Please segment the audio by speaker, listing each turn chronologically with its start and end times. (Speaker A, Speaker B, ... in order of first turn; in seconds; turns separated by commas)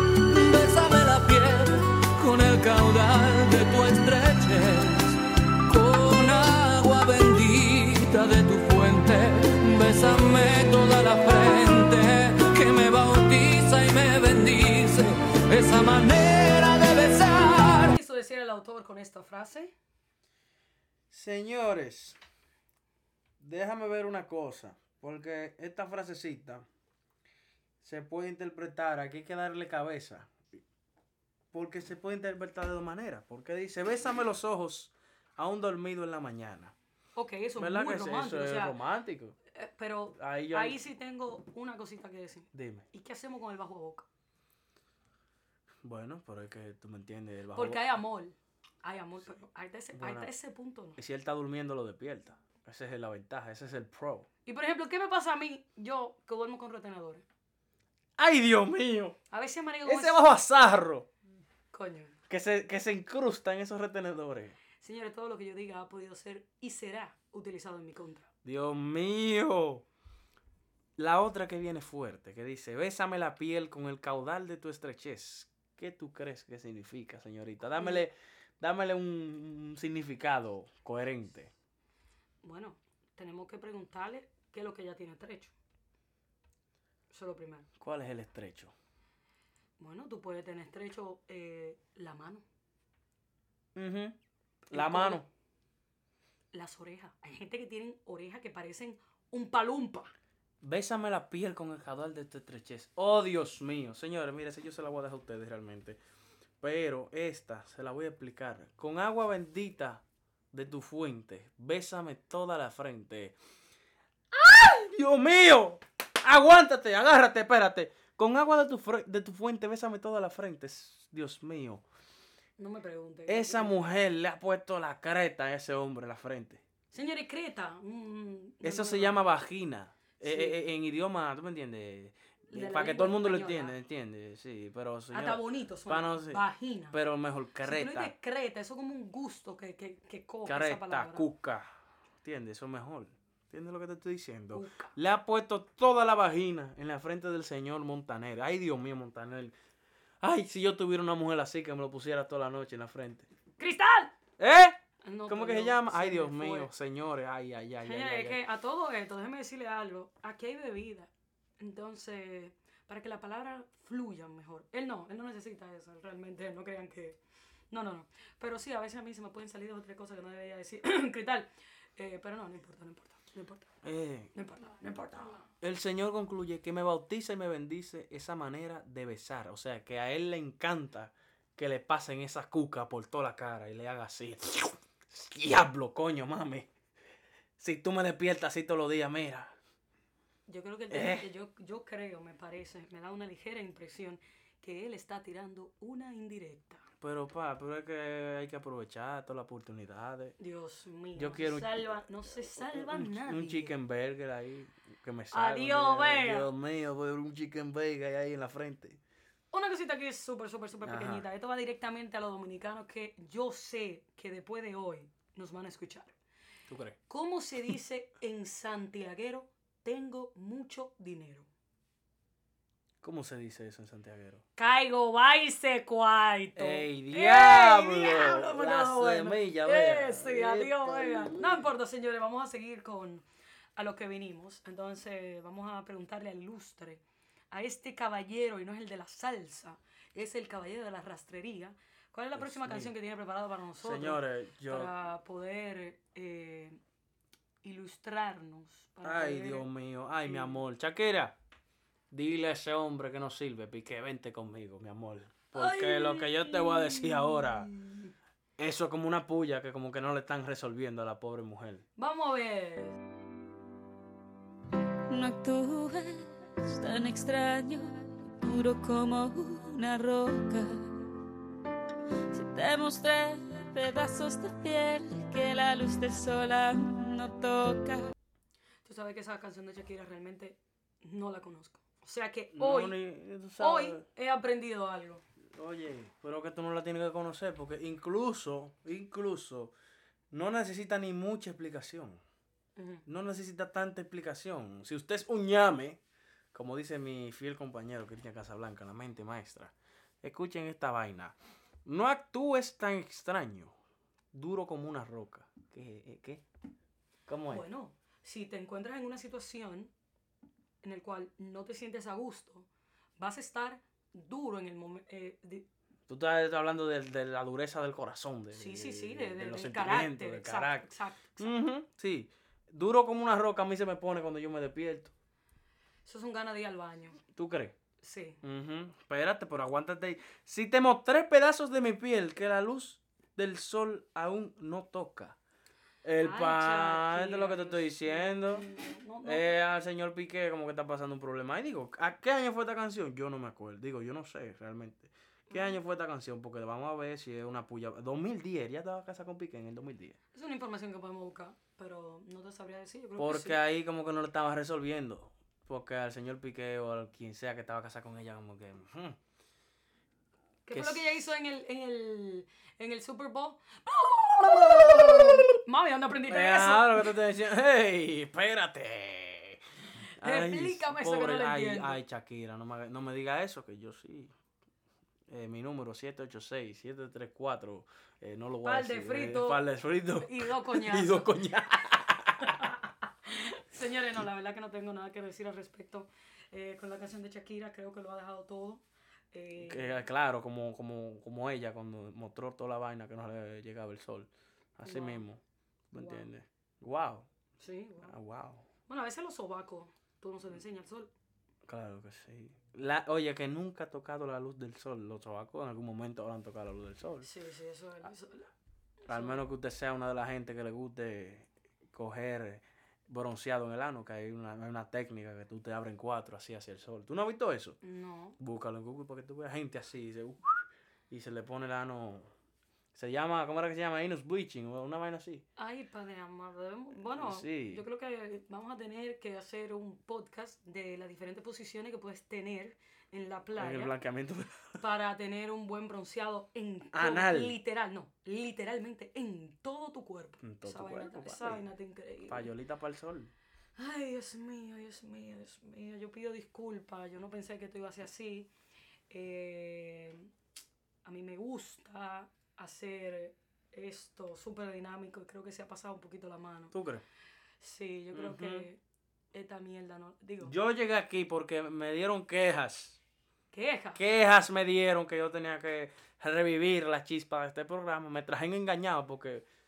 Speaker A: 0.3-17.9, Speaker B: 17.9-19.7, Speaker C: 21.1-22.2, Speaker C: 23.4-26.6, Speaker C: 27.8-30.4, Speaker C: 31.5-36.7, Speaker B: 37.1-38.8, Speaker C: 37.6-39.4, Speaker B: 39.5-44.0, Speaker C: 40.1-40.8, Speaker C: 42.5-42.9, Speaker C: 45.8-48.0, Speaker B: 47.5-51.0, Speaker C: 49.9-50.3, Speaker C: 51.0-54.3, Speaker B: 54.5-57.2, Speaker C: 58.2-59.2, Speaker B: 59.3-60.2, Speaker C: 59.8-61.1, Speaker B: 61.7-62.2, Speaker C: 62.3-64.6, Speaker B: 64.8-68.3, Speaker C: 68.4-69.8, Speaker C: 71.0-81.5, Speaker B: 82.4-85.5, Speaker B: 87.1-87.7, Speaker C: 87.8-88.7, Speaker B: 89.8-92.4, Speaker C: 93.7-94.2, Speaker B: 94.7-95.2, Speaker C: 94.7-95.3, Speaker B: 96.5-100.1, Speaker C: 100.6-106.0, Speaker C: 106.6-113.3, Speaker C: 114.3-121.8, Speaker B: 122.6-124.0, Speaker C: 123.3-126.6, Speaker B: 126.9-129.2, Speaker C: 128.6-138.1, Speaker B: 130.2-130.6, Speaker B: 132.5-133.7, Speaker B: 135.1-137.0, Speaker B: 137.6-141.3, Speaker C: 140.4-141.7, Speaker C: 142.2-149.5, Speaker B: 144.5-144.9, Speaker C: 150.2-153.3, Speaker B: 153.6-154.1, Speaker C: 154.4-158.4, Speaker B: 155.0-156.7, Speaker B: 157.8-167.2, Speaker B: 167.7-173.7, Speaker C: 173.8-174.3, Speaker B: 174.3-175.4, Speaker C: 175.6-186.7, Speaker C: 187.6-189.5, Speaker B: 190.5-196.8, Speaker C: 190.9-191.3, Speaker C: 197.0-200.3, Speaker B: 200.4-203.7, Speaker C: 201.2-201.9, Speaker C: 202.5-209.0, Speaker B: 205.3-206.5, Speaker B: 209.5-216.1, Speaker C: 210.8-211.3, Speaker C: 216.7-217.0, Speaker B: 217.1-221.5, Speaker C: 223.0-224.4, Speaker B: 224.6-233.2, Speaker C: 226.6-231.7, Speaker B: 233.8-246.8, Speaker C: 242.3-242.9, Speaker C: 243.8-244.9, Speaker B: 247.6-249.7, Speaker C: 249.0-251.4, Speaker B: 250.2-250.6, Speaker C: 252.1-257.7, Speaker B: 255.5-258.1, Speaker C: 258.6-261.8, Speaker B: 262.0-263.0, Speaker D: 265.1-271.0, Speaker D: 272.3-278.1, Speaker B: 278.8-283.0, Speaker C: 282.5-284.0, Speaker B: 283.6-285.2, Speaker C: 285.5-289.7, Speaker C: 290.3-292.2, Speaker B: 292.8-293.0, Speaker C: 293.1-296.0, Speaker C: 296.5-303.7, Speaker C: 304.3-306.4, Speaker C: 307.3-307.6, Speaker B: 307.5-309.9, Speaker B: 310.8-312.7, Speaker B: 313.2-315.6, Speaker C: 316.1-325.1, Speaker B: 318.5-321.5, Speaker B: 326.1-327.2, Speaker C: 327.3-327.8, Speaker B: 328.0-328.4, Speaker C: 328.4-335.4, Speaker C: 336.0-338.6, Speaker B: 336.2-339.5, Speaker C: 339.2-350.2, Speaker B: 345.5-345.8, Speaker B: 350.3-353.6, Speaker C: 353.2-359.2, Speaker B: 360.7-367.1, Speaker C: 360.7-361.1, Speaker C: 364.5-365.5, Speaker C: 366.2-369.6, Speaker C: 370.2-374.3, Speaker B: 370.2-372.0, Speaker C: 375.3-382.7, Speaker B: 378.6-379.6, Speaker B: 380.2-381.3, Speaker B: 382.4-390.0, Speaker C: 389.6-397.3, Speaker B: 394.8-395.2, Speaker B: 395.9-396.3, Speaker B: 397.6-398.1, Speaker C: 398.0-398.6, Speaker B: 398.9-401.1, Speaker C: 401.6-407.3, Speaker B: 407.2-408.5, Speaker B: 409.1-409.4, Speaker C: 409.1-417.8, Speaker B: 417.8-418.4, Speaker C: 418.4-422.3, Speaker C: 422.9-425.4, Speaker B: 425.6-433.9, Speaker C: 427.1-427.8, Speaker C: 433.6-434.8, Speaker B: 434.8-442.5, Speaker C: 436.9-437.6, Speaker C: 440.4-441.6, Speaker C: 442.2-443.3, Speaker B: 443.8-448.5, Speaker B: 449.1-450.3, Speaker B: 451.1-456.7, Speaker C: 456.7-457.0, Speaker B: 457.6-458.8, Speaker C: 458.1-458.7, Speaker B: 459.3-460.5, Speaker C: 460.4-463.0, Speaker B: 463.5-464.0, Speaker C: 463.9-469.4